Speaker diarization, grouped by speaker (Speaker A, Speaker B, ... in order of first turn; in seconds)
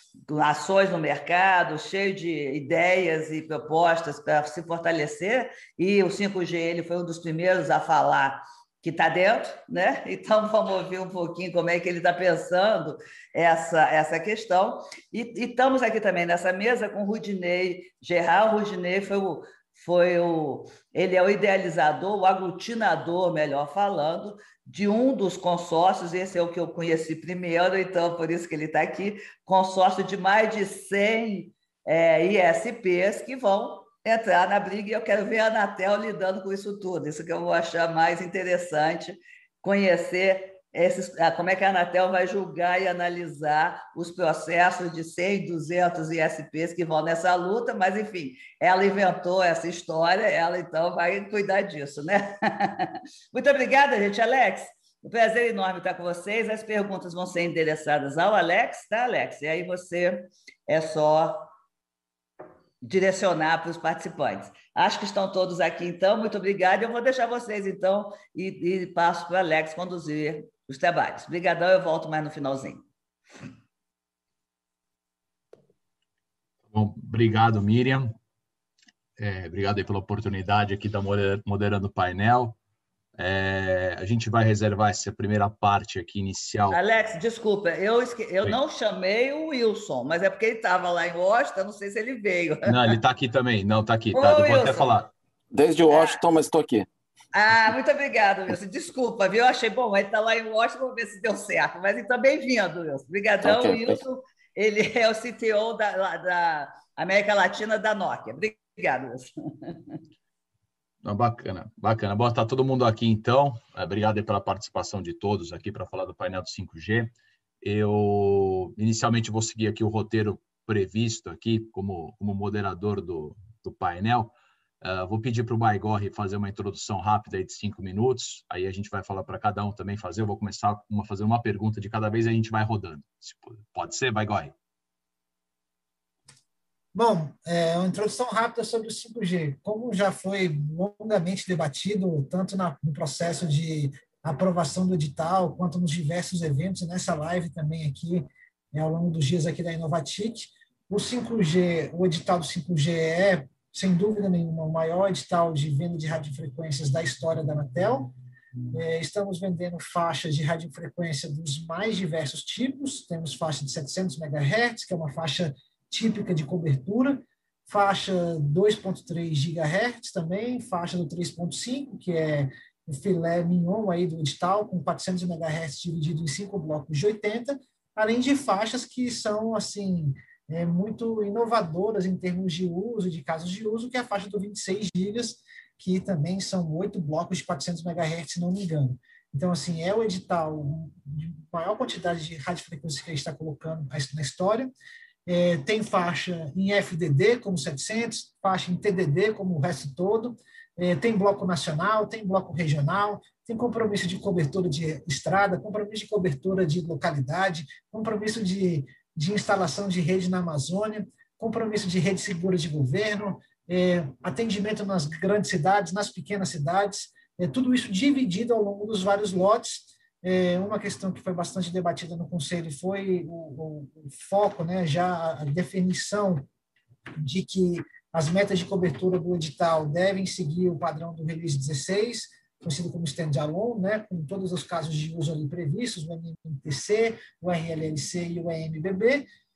Speaker A: 0.3-61.5, 62.8-72.8, 86.7-92.9, 94.1-94.9, 95.9-96.2, 97.3-110.0
Speaker B: 76.7-78.2, 79.2-82.6, 83.2-86.8, 92.6-95.1, 111.0-134.5
Speaker C: 95.5-96.9, 103.4-104.0
Speaker D: 136.9-158.1, 158.7-194.7, 195.3-226.5, 227.2-239.3